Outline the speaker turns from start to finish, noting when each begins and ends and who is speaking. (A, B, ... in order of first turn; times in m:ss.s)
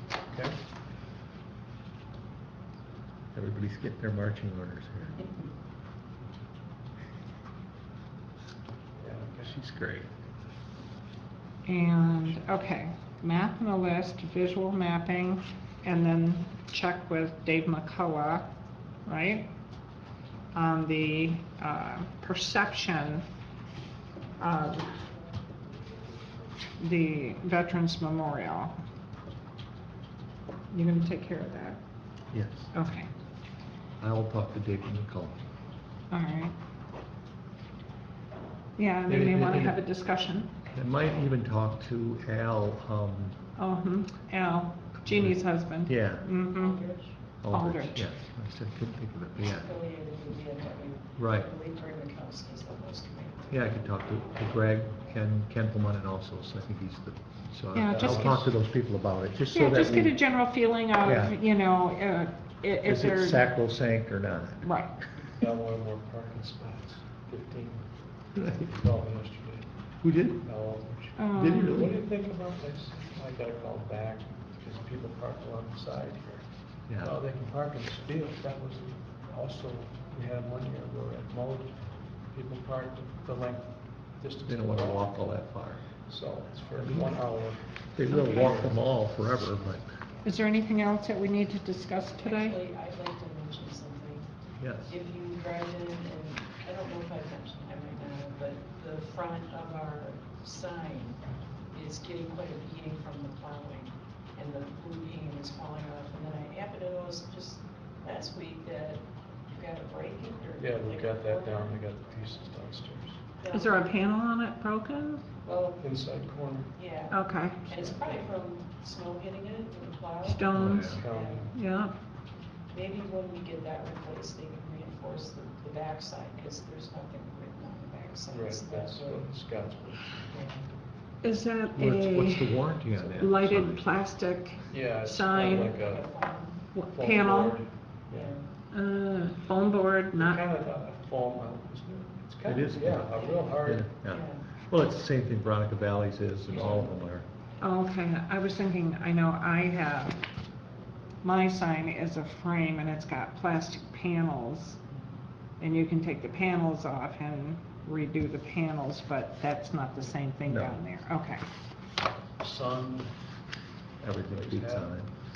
0:03.3-0:05.3 A
0:09.0-0:09.6 B
0:09.5-0:10.1 A
0:11.7-0:18.5 C
0:19.1-0:19.5 C
0:20.5-0:23.2 C
0:24.4-0:24.9 C
0:26.8-0:28.7 C
0:30.7-0:31.8 C
0:32.3-0:32.7 A
0:32.7-0:33.1 C
0:34.0-0:35.4 A
0:36.1-0:36.6 C
0:38.8-0:40.5 C
0:39.1-0:39.8 A
0:40.7-0:43.4 A
0:43.6-0:46.9 C
0:45.1-0:45.4 A
0:45.9-0:46.3 A
0:46.5-0:47.1 D
0:47.4-0:49.7 A
0:47.5-0:48.1 C
0:49.6-0:53.5 D
0:51.2-0:51.5 A
0:53.5-1:00.2 A
0:57.7-0:58.5 C
0:58.0-0:58.4 B
0:59.5-1:03.4 C
1:01.0-1:01.4 A
1:02.8-1:04.6 A
1:04.6-1:05.0 C
1:05.4-1:07.8 B
1:08.4-1:09.7 B
1:10.0-1:10.4 A
1:10.4-1:16.4 B
1:11.2-1:11.9 C
1:11.4-1:12.0 A
1:16.9-1:17.1 A
1:17.0-1:21.8 B
1:22.3-1:25.1 B
1:24.5-1:25.8 A
1:26.1-1:28.8 B
1:26.8-1:27.1 A
1:28.0-1:29.9 A
1:30.2-1:32.6 C
1:32.2-1:34.3 D
1:34.6-1:34.9 A
1:34.9-1:41.2 D
1:41.7-1:51.8 D
1:50.6-1:53.2 B
1:53.4-1:53.8 D
1:53.5-1:55.2 C
1:55.4-1:55.8 D
1:55.8-1:56.7 B
1:56.8-2:01.5 D
1:57.1-1:57.7 C
1:57.7-1:58.2 B
2:00.2-2:01.0 C
2:00.6-2:01.0 A
2:00.6-2:01.5 B
2:01.5-2:01.9 C
2:02.7-2:09.3 D
2:08.3-2:10.2 B
2:10.3-2:10.6 D
2:11.2-2:15.7 C
2:11.8-2:13.8 A
2:14.7-2:16.1 B
2:15.4-2:16.7 D
2:16.7-2:17.6 C
2:16.9-2:18.4 B
2:18.1-2:18.4 D
2:18.7-2:20.4 C
2:20.1-2:23.9 B
2:22.5-2:27.2 A
2:24.1-2:24.4 D
2:26.6-2:26.8 B
2:27.6-2:30.2 C
2:31.2-2:34.8 C
2:35.6-2:41.4 C
2:40.5-2:40.8 A
2:42.4-2:43.1 B
2:44.0-2:45.1 A
2:44.4-2:44.9 B